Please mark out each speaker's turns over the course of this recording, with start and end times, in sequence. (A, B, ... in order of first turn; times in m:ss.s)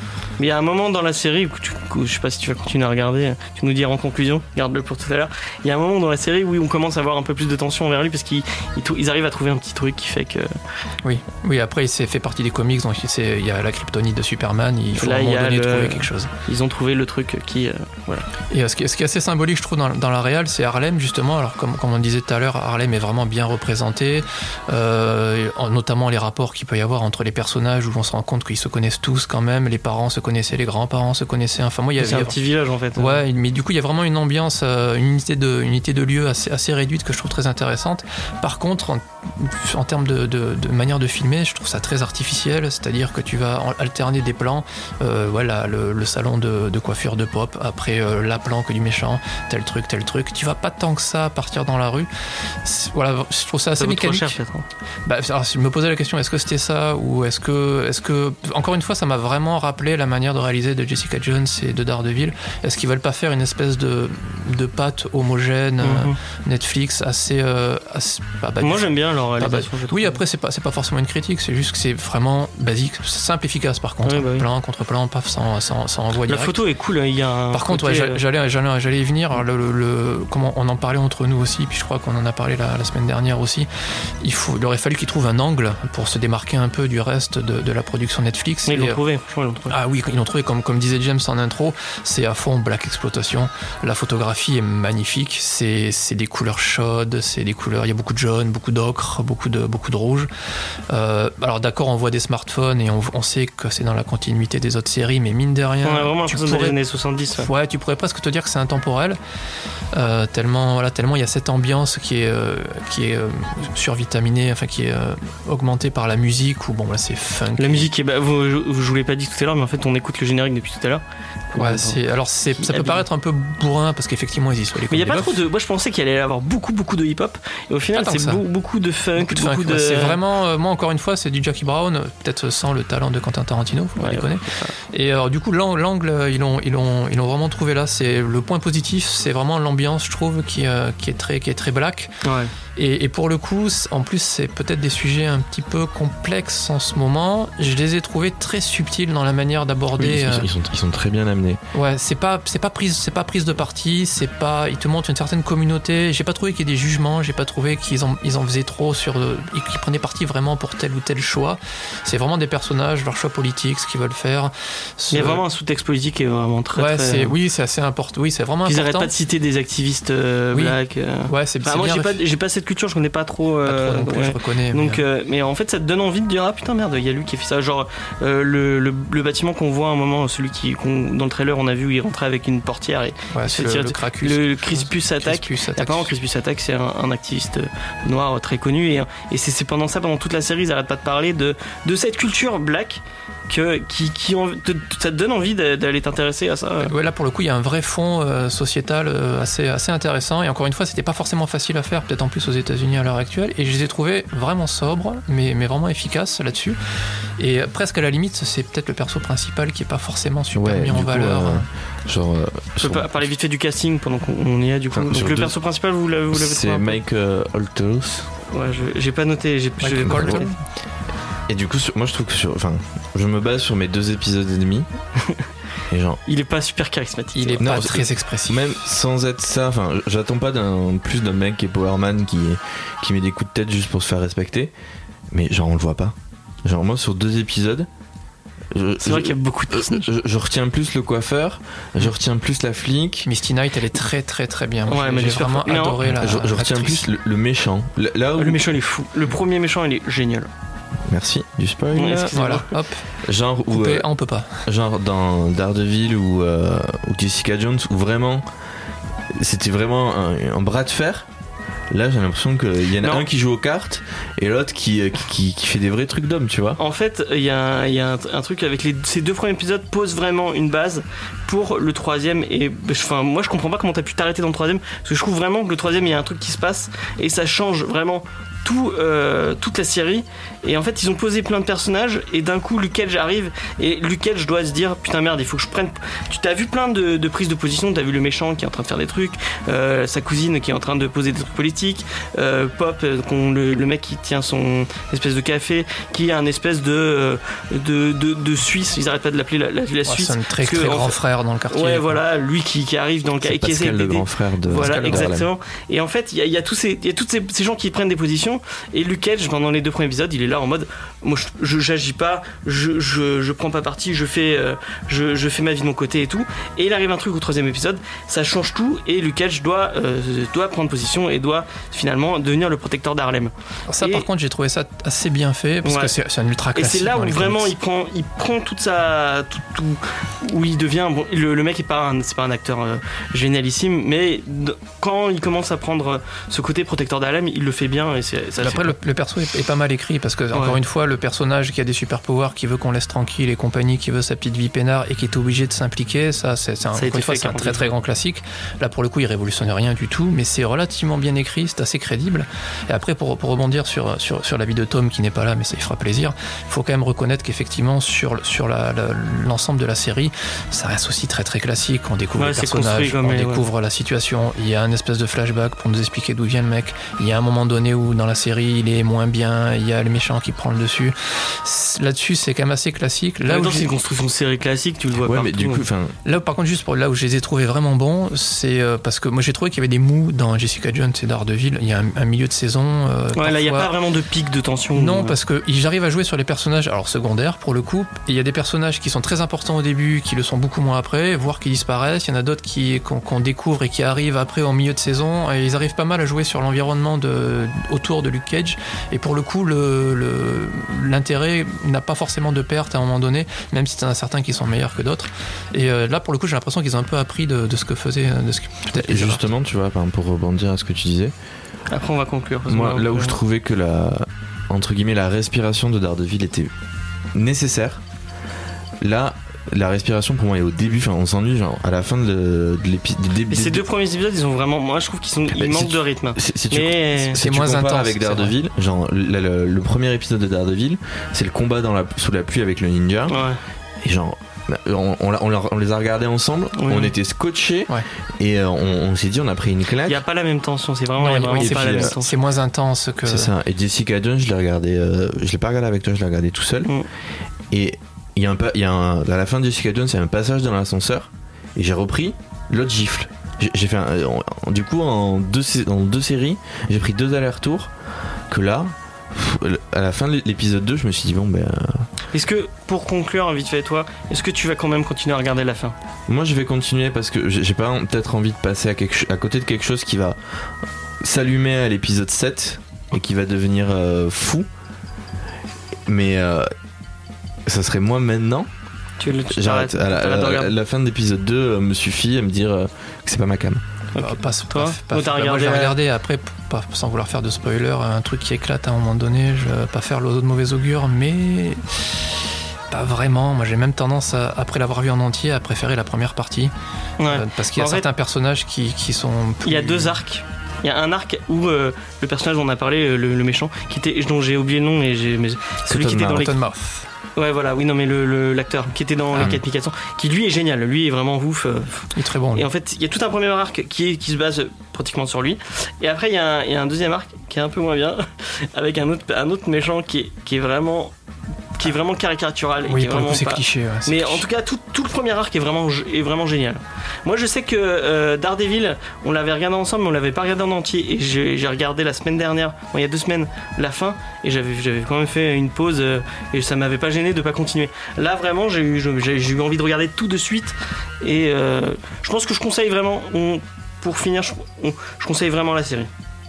0:00.4-0:10.6 A
0:11.0-0:16.3 B
0:15.0-0:18.3 A
0:18.5-0:32.4 B
0:32.0-0:33.2 A
0:33.0-0:52.1 B
0:52.6-0:54.4 B
0:53.8-0:54.7 A
0:55.1-1:16.6 B
1:05.8-1:06.2 A
1:08.6-1:10.2 A
1:14.1-1:14.5 A
1:16.3-1:18.2 A
1:17.5-1:23.7 B
1:24.2-1:29.0 B
1:28.7-1:29.7 A
1:29.7-1:40.3 B
1:40.9-1:46.8 B
1:45.8-1:47.5 A
1:47.4-1:49.2 B
1:49.9-1:57.9 B
1:57.6-2:02.0 A
2:01.6-2:05.4 B
2:02.6-2:03.0 A
2:04.9-2:10.2 A
2:08.0-2:08.4 B
2:09.2-2:22.1 B
2:14.0-2:14.7 A
2:22.2-2:22.5 A
2:22.8-2:30.5 B
2:30.0-2:31.6 C
2:31.7-2:45.4 B
2:45.1-2:47.4 A
2:46.8-2:49.1 B
2:48.7-3:16.9 A
2:51.3-2:52.2 B
2:53.6-2:55.0 B
3:03.3-3:06.1 B
3:16.8-3:26.8 B
3:27.4-3:31.7 B
3:30.6-3:33.2 C
3:32.8-3:37.0 A
3:34.9-3:35.6 C
3:36.3-3:38.3 C
3:38.5-3:40.5 A
3:39.8-3:40.6 B
3:40.0-3:40.4 C
3:41.5-3:44.9 C
3:45.9-3:46.2 C
3:46.3-3:47.7 A
3:47.4-3:48.6 B
3:47.6-3:54.7 C
3:55.3-3:57.9 C
3:58.7-4:03.3 C
3:59.0-4:00.1 A
4:03.2-4:07.1 B
4:04.9-4:06.1 A
4:06.1-4:08.7 C
4:08.4-4:10.5 A
4:11.1-4:12.4 C
4:12.0-4:12.8 A
4:12.1-4:13.0 B
4:13.2-4:14.1 C
4:13.7-4:14.7 B
4:14.7-4:18.4 C
4:19.3-4:21.3 C
4:21.9-4:26.8 C
4:26.8-5:01.2 A
5:00.1-5:02.2 B
5:01.7-5:24.3 A
5:03.4-5:05.5 C
5:04.8-5:05.3 B
5:23.9-5:27.7 B
5:25.8-5:26.1 A
5:26.8-5:39.0 A
5:38.6-6:13.9 B
5:40.5-5:40.8 A
5:47.0-5:47.9 A
6:02.4-6:03.7 A
6:13.4-6:15.8 A
6:15.2-6:16.2 C
6:16.2-6:23.9 B
6:23.4-6:25.4 A
6:25.0-6:49.4 B
6:48.9-6:51.3 C
6:51.9-6:53.4 A
6:52.7-6:56.7 C
6:57.3-6:58.0 C
6:59.0-7:03.8 C
7:03.5-7:07.4 A
7:05.5-7:13.5 C
7:07.3-7:08.6 B
7:13.3-7:13.6 A
7:14.0-7:20.2 C
7:16.8-7:17.2 A
7:20.0-7:22.4 A
7:21.2-7:23.5 B
7:21.6-7:22.2 C
7:23.2-7:26.9 C
7:27.7-7:37.9 C
7:38.5-7:42.1 C
7:42.3-7:46.0 A
7:46.3-7:50.4 C
7:51.2-7:54.7 C
7:56.1-7:56.7 C
7:57.7-7:58.7 C
7:59.2-8:00.7 A
7:59.5-8:03.8 C
8:04.2-8:06.0 A
8:04.2-8:12.0 B
8:12.9-8:16.7 B
8:17.2-8:18.1 A
8:17.3-8:20.2 B
8:19.6-8:26.6 A
8:25.9-8:26.5 C
8:26.3-8:27.1 B
8:27.4-8:41.1 A
8:29.4-8:29.6 C
8:32.2-8:32.7 B
8:41.8-9:06.1 A
8:42.9-8:44.4 B